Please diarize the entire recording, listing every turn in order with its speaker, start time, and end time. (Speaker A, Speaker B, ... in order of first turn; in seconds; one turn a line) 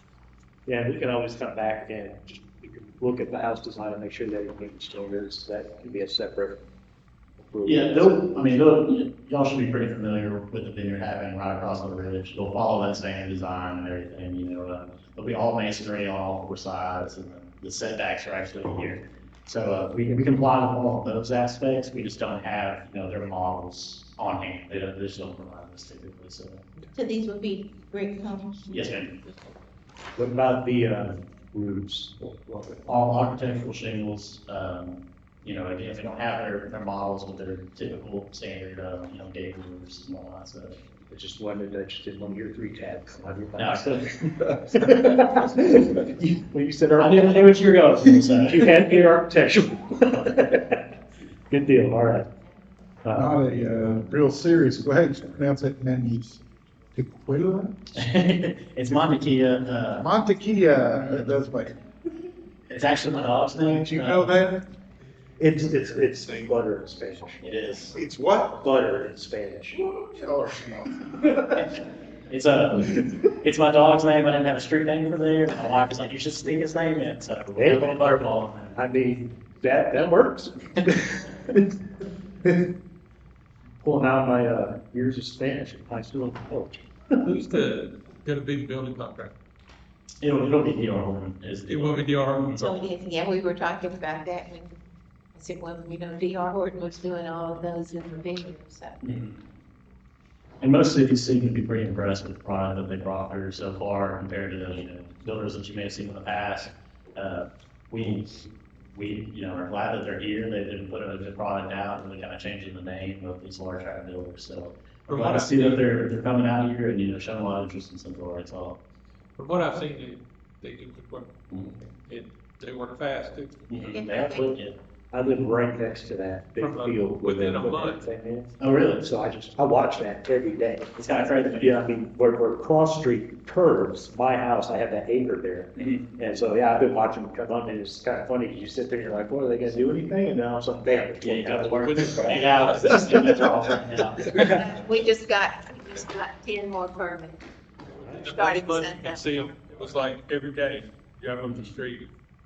Speaker A: 0.7-6.7
Speaker A: 7.4-8.3
Speaker B: 7.6-26.6
Speaker C: 26.9-28.7
Speaker B: 28.7-29.2
Speaker A: 30.1-32.8
Speaker B: 32.9-40.8
Speaker A: 41.1-47.6
Speaker B: 43.6-44.5
Speaker B: 47.0-49.0
Speaker A: 48.3-50.8
Speaker A: 51.5-52.3
Speaker A: 53.0-53.3
Speaker D: 53.1-57.8
Speaker B: 57.9-60.1
Speaker D: 60.0-61.8
Speaker B: 62.7-64.4
Speaker D: 63.6-64.6
Speaker A: 65.4-67.4
Speaker D: 65.7-66.6
Speaker B: 67.4-68.0
Speaker D: 67.9-68.7
Speaker A: 68.6-69.8
Speaker D: 69.7-71.7
Speaker B: 71.5-78.8
Speaker A: 77.5-81.7
Speaker A: 83.8-87.2
Speaker E: 87.2-89.3
Speaker B: 90.2-92.7
Speaker E: 91.7-92.8
Speaker C: 92.6-94.8
Speaker C: 95.3-99.0
Speaker B: 99.0-99.3
Speaker B: 100.6-118.8
Speaker E: 115.1-115.8
Speaker E: 119.4-121.3
Speaker E: 122.0-123.7
Speaker B: 123.7-124.8
Speaker C: 123.8-124.5
Speaker A: 125.1-130.9
Speaker E: 126.6-128.0
Speaker B: 128.6-129.1
Speaker B: 130.9-131.8
Speaker A: 131.6-142.5
Speaker B: 135.8-136.0
Speaker B: 141.2-144.7
Speaker E: 141.8-143.5
Speaker C: 144.4-147.4
Speaker E: 148.0-152.1
Speaker C: 148.2-149.2